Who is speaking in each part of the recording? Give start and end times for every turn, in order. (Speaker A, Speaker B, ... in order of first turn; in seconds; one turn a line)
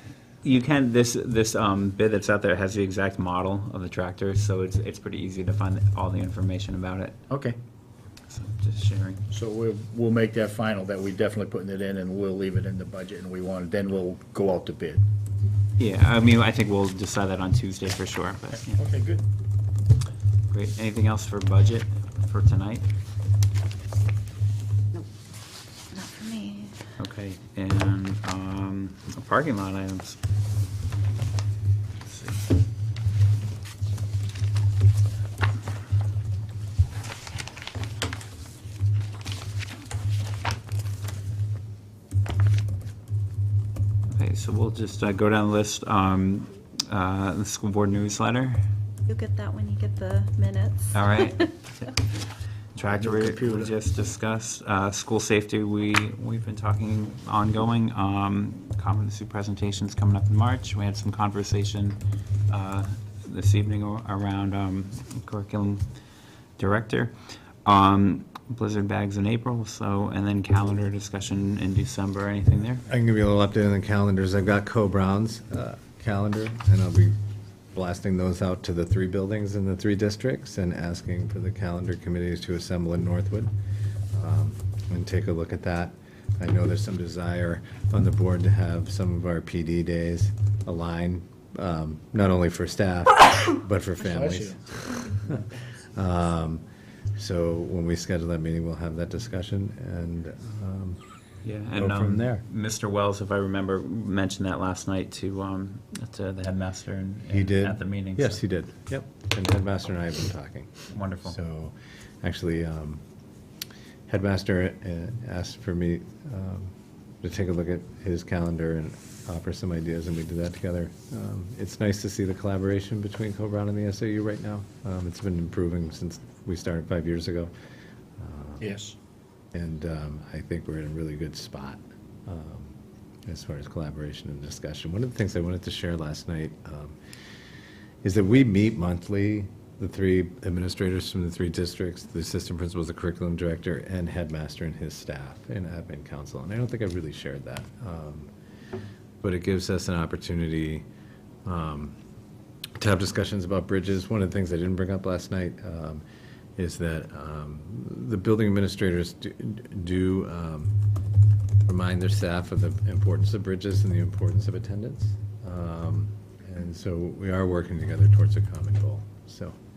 Speaker A: 0.4-7.2
Speaker B: 7.3-7.5
Speaker A: 8.3-9.2
Speaker B: 9.3-15.0
Speaker A: 15.8-18.8
Speaker B: 18.7-19.2
Speaker A: 20.5-22.9
Speaker C: 25.9-26.9
Speaker A: 27.0-30.2
Speaker A: 32.0-32.4
Speaker A: 44.1-48.6
Speaker C: 49.1-51.5
Speaker A: 50.9-52.0
Speaker A: 52.7-65.8
Speaker B: 52.9-53.7
Speaker A: 66.6-67.1
Speaker A: 67.6-72.8
Speaker D: 72.9-77.2
Speaker D: 77.7-83.5
Speaker D: 84.1-95.3
Speaker B: 94.0-95.3
Speaker D: 95.9-96.6
Speaker D: 97.2-101.0
Speaker A: 101.4-108.4
Speaker D: 101.8-102.4
Speaker D: 107.3-113.0
Speaker A: 110.9-111.3
Speaker D: 114.1-127.5
Speaker D: 128.2-128.6
Speaker B: 128.6-128.9
Speaker D: 129.5-132.7
Speaker D: 133.3-137.0
Speaker D: 138.0-148.3
Speaker D: 149.2-150.8
Speaker D: 151.4-151.9
Speaker D: 152.8-156.0
Speaker D: 156.6-160.8
Speaker D: 161.7-169.5